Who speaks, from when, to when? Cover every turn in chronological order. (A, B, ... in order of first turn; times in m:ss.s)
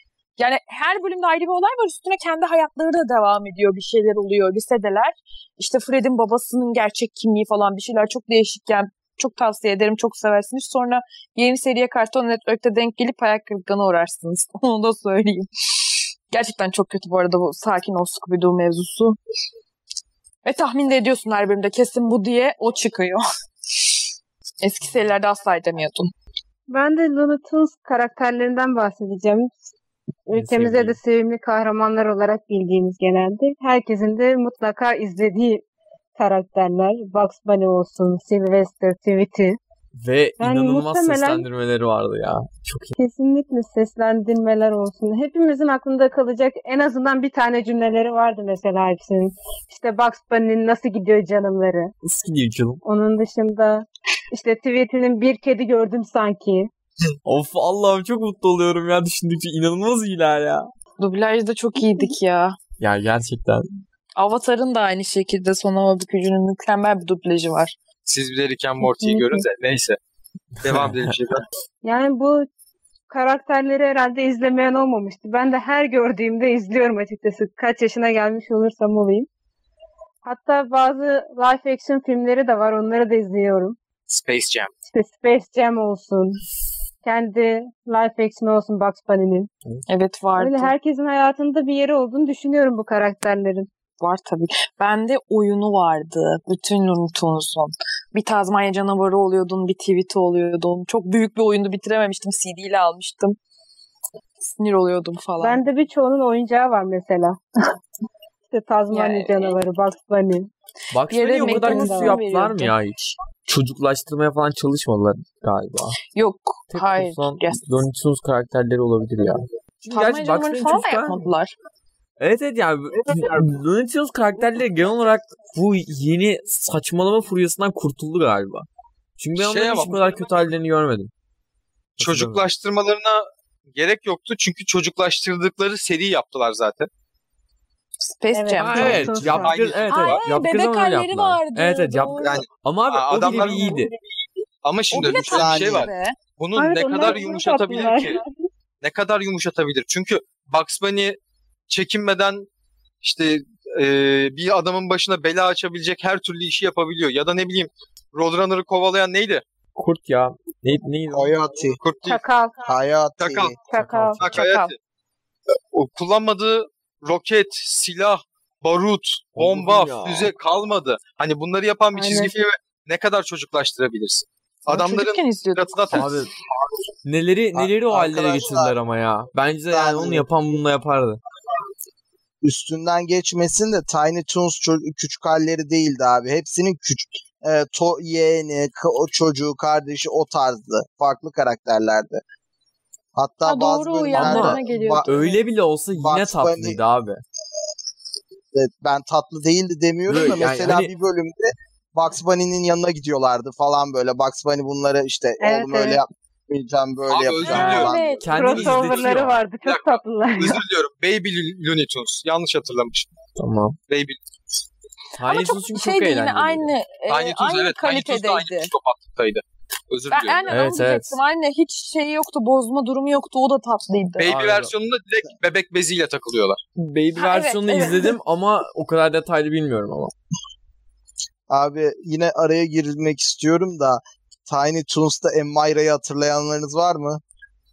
0:00.4-0:15.5 A
0:16.3-0:19.2 A
0:20.4-0:23.2 A
0:24.6-0:26.1 A
0:26.7-0:29.5 B
0:30.3-0:35.6 B
0:30.3-0:31.0 C
0:36.2-0:39.6 B
0:40.0-0:43.0 C
0:40.4-0:41.5 B
0:43.0-0:51.9 B
0:52.0-0:52.8 C
0:52.8-0:56.7 B
0:57.2-1:00.7 C
1:01.0-1:02.6 A
1:02.8-1:03.7 C
1:04.2-1:07.8 A
1:08.1-1:10.0 D
1:08.8-1:09.4 B
1:10.6-1:11.1 C
1:10.6-1:11.4 D
1:11.8-1:12.5 B
1:13.1-1:19.3 B
1:20.2-1:23.8 B
1:24.1-1:24.7 D
1:24.9-1:26.4 B
1:27.0-1:29.5 B
1:29.9-1:30.7 A
1:30.4-1:33.7 B
1:34.0-1:43.4 A
1:44.4-1:45.6 A
1:45.4-1:47.4 B
1:48.5-1:50.5 B
1:48.9-1:49.6 A
1:50.9-1:56.0 C
1:51.1-1:52.8 A
1:51.4-1:52.2 B
1:56.1-1:57.6 A
1:56.7-2:01.3 C
1:59.9-2:01.5 A
2:02.2-2:08.7 C
2:09.2-2:11.1 C
2:09.4-2:10.3 D
2:12.0-2:12.5 C
2:12.0-2:16.9 D
2:18.0-2:19.1 A
2:18.3-2:19.6 B
2:18.6-2:23.9 C
2:19.1-2:20.2 D
2:19.9-2:22.4 A
2:22.2-2:23.8 D
2:23.4-2:23.7 A
2:24.6-2:28.2 D
2:24.9-2:26.2 A
2:25.0-2:25.9 E
2:26.6-2:28.3 B
2:28.8-2:31.2 D
2:31.7-2:32.5 D
2:33.0-2:39.4 D
2:39.8-2:41.4 C
2:41.1-2:41.8 E
2:41.8-2:42.2 D
2:42.1-2:42.8 B
2:42.6-2:43.6 E
2:43.2-2:43.6 D
2:43.7-2:44.2 B
2:43.7-2:44.2 C
2:44.2-2:44.8 D
2:44.2-2:44.7 A
2:45.7-2:56.1 D
2:49.4-2:50.3 C
2:52.0-2:52.3 B
2:54.7-2:56.0 A
2:55.9-2:56.3 C
2:57.1-3:01.2 C
2:57.6-2:58.7 E
2:59.7-3:00.3 E
3:02.4-3:12.2 E
3:13.2-3:15.2 E
3:13.4-3:15.4 A
3:14.1-3:17.2 C
3:15.9-3:16.8 E
3:18.5-3:28.2 E
3:20.1-3:20.9 C
3:25.4-3:26.0 B
3:27.1-3:33.1 D
3:27.5-3:28.3 A
3:27.5-3:29.4 C
3:28.3-3:30.6 B
3:33.4-3:33.8 C
3:33.9-3:34.2 D
3:35.2-3:36.7 C
3:35.2-3:38.7 A
3:37.1-3:40.4 D
3:40.1-3:44.3 A
3:40.5-3:41.2 C
3:44.2-3:46.6 D
3:44.2-3:44.7 C
3:46.8-3:50.1 C
3:47.2-3:48.1 A
3:51.5-3:57.2 E